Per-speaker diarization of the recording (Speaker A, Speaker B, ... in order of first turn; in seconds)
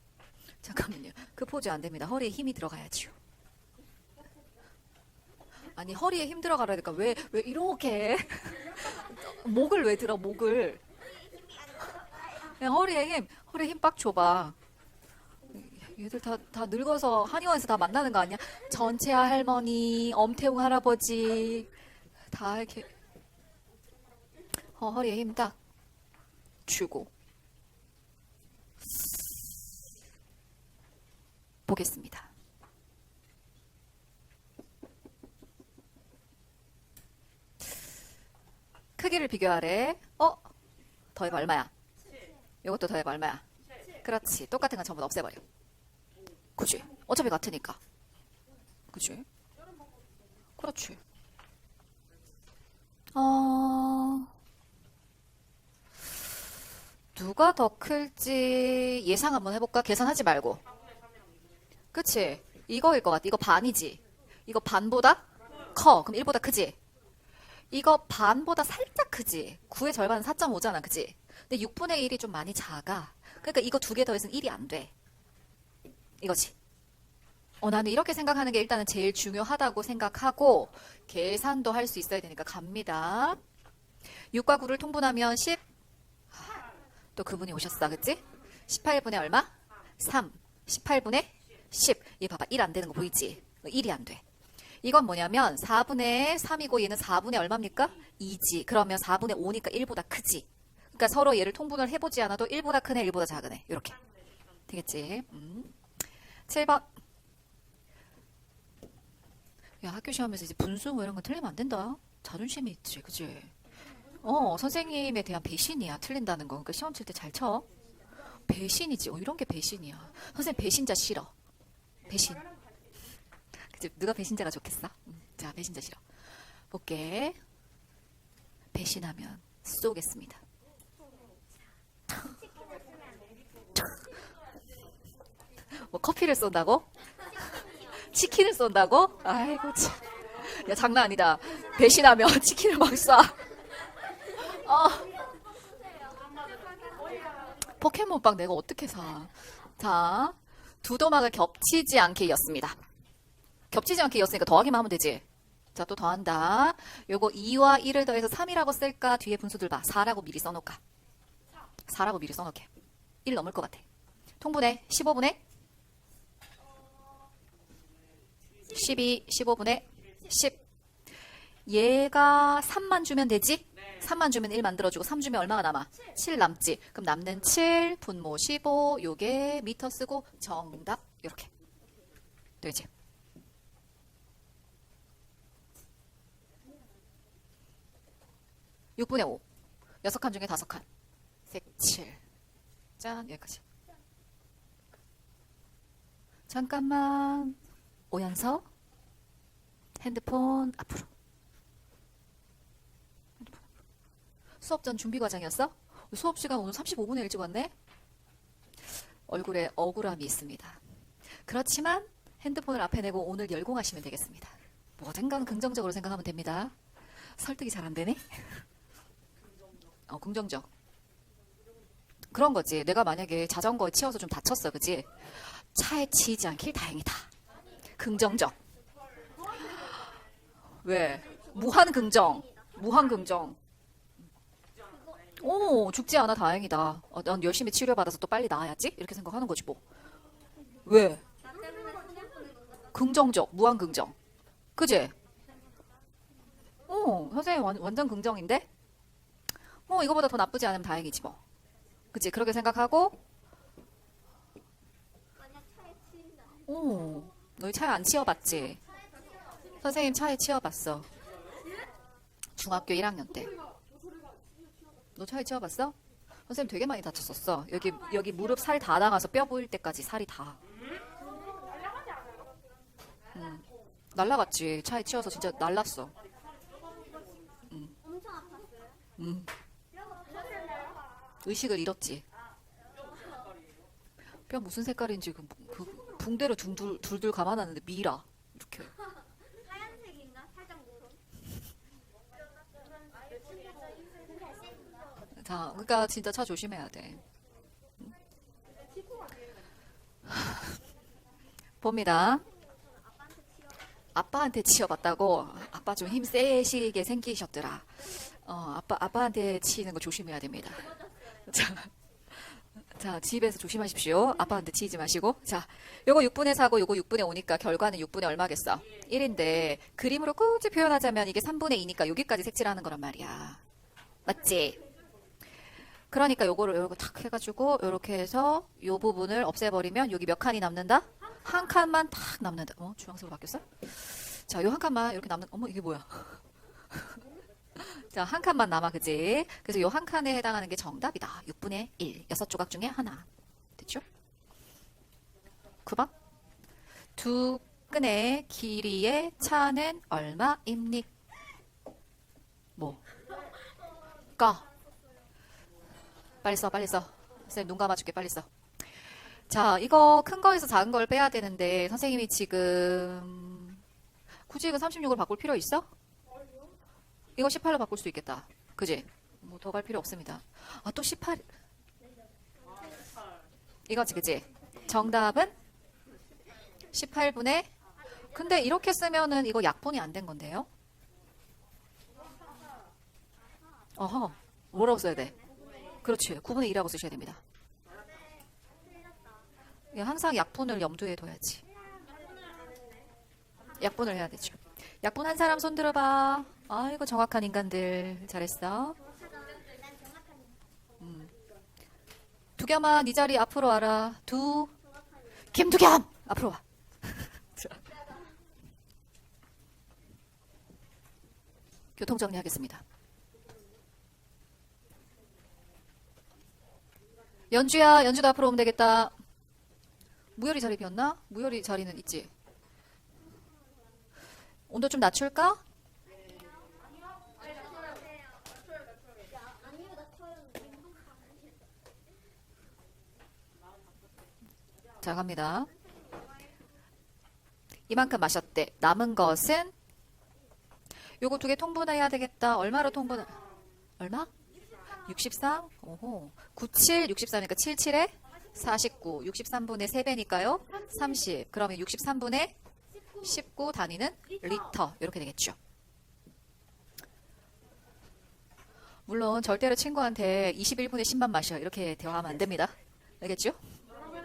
Speaker A: 0.6-3.2, 5.8-10.8, 12.3-14.6, 15.5-21.7, 22.3-22.9, 24.8-25.6, 26.7-27.1, 31.7-32.3, 39.0-40.5, 41.1-41.7, 42.6-43.4, 44.0-45.5, 46.6-47.8, 48.9-49.2, 50.6-51.0, 53.1-54.3, 57.1-60.6, 61.9-66.8, 67.7-74.9, 76.2-76.5, 77.6-83.4, 84.3-85.6, 86.3-86.7, 87.2-94.2, 94.8-104.0, 104.7-105.9, 106.5-106.9, 109.8-113.5, 114.2-117.7, 118.5-121.3, 122.1-122.5, 123.5-126.0, 126.7-127.4, 128.7-130.4, 135.7-143.6, 144.1-145.2, 147.6-152.8, 153.7-155.2, 155.8-160.8, 161.9-162.7, 163.2-163.8, 164.4-165.4, 168.7-170.6, 171.7-181.5, 182.6-182.9, 189.0-189.4, 190.0-190.8, 191.5-192.2, 193.0-193.6, 196.5-197.6, 198.1-198.7, 200.0-201.1, 204.6-207.7, 209.3-210.8, 211.4-218.7, 220.1-220.7, 222.3-227.3, 228.0-228.6, 229.6-229.9, 230.8-233.6, 235.4-239.8, 240.8-241.2, 242.9-244.2, 244.8-245.2, 246.9-248.7, 249.9-251.4, 252.1-253.2, 256.6-258.8, 259.8-261.1, 262.6-263.6, 265.2-266.0, 266.5-270.6, 273.3-276.1, 277.7-277.9, 279.2-279.5, 281.4-282.2, 284.5-288.9, 295.4-297.2, 300.3-300.7, 301.8-302.5, 304.1-323.6, 324.3-324.8, 326.1-337.2, 337.8-344.1, 345.9-346.1, 347.2-351.1, 352.8-353.0, 354.4-354.7, 356.4-358.5, 359.5-363.8, 364.5-365.9, 367.4-371.5, 373.9-375.6, 376.9-380.7, 384.0-385.4, 386.0-387.4, 389.9-391.6, 393.8-399.0, 401.0-401.3, 402.6-404.7, 405.4-407.9, 412.0-412.8, 417.5-419.1, 420.4-422.3, 424.7-425.6, 435.0-435.7, 437.9-439.7, 441.2-443.4, 444.0-444.3, 445.0-452.6, 453.2-455.6, 459.1-463.6
Speaker B: 132.2-133.2, 145.9-147.3, 241.5-242.7, 255.8-256.4, 271.3-271.9, 278.1-278.8, 280.3-280.7, 289.8-291.1, 293.3-295.1, 388.1-388.4, 391.9-392.8, 399.3-400.4, 429.6-431.2